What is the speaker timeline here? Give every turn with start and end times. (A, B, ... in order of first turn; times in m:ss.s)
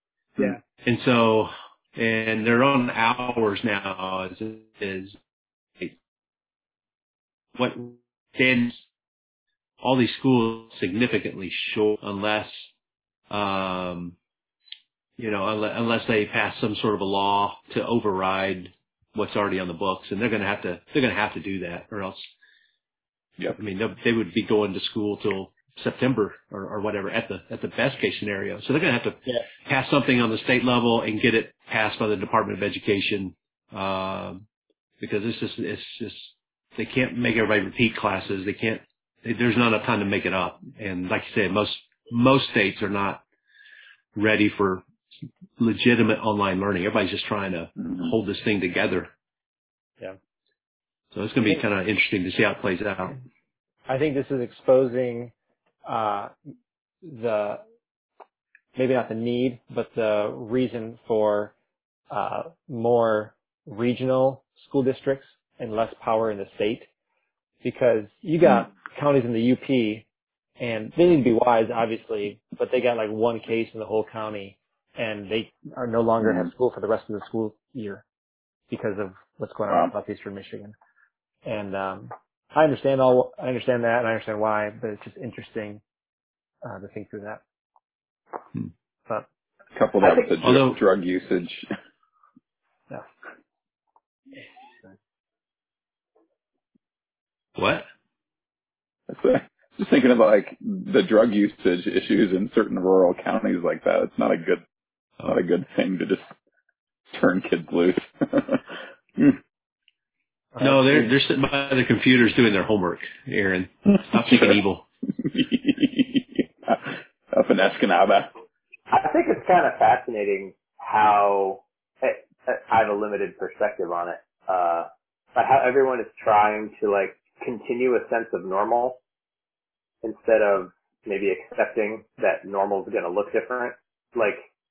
0:00.4-0:05.2 A
0:07.6-0:08.8 A
0:09.8-0:12.7 A
0:13.3-0:14.1 A
0:15.2-0:22.3 A
0:23.5-0:34.4 A
0:35.0-0:43.2 A
0:44.1-0:44.8 A
0:45.6-0:49.1 A
0:47.8-0:48.1 B
0:51.1-0:53.2 A
0:53.9-0:55.3 C
0:55.8-0:56.3 C
0:57.0-0:57.6 C
0:58.8-1:01.5 C
1:02.1-1:06.9 C
1:07.6-1:10.0 C
1:10.6-1:18.0 C
1:16.2-1:16.5 B
1:18.7-1:20.7 C
1:21.4-1:25.8 C
1:26.6-1:27.4 C
1:29.7-1:31.7 B
1:30.0-1:30.3 D
1:30.4-1:30.8 A
1:37.6-1:37.8 A
1:39.1-1:44.6 B
1:45.2-1:46.3 B
1:47.1-1:48.6 B
1:50.5-1:51.1 C
1:50.6-1:54.8 A
1:54.2-1:54.6 B
1:55.2-1:58.3 B
1:58.9-2:09.0 D
2:10.0-2:14.4 D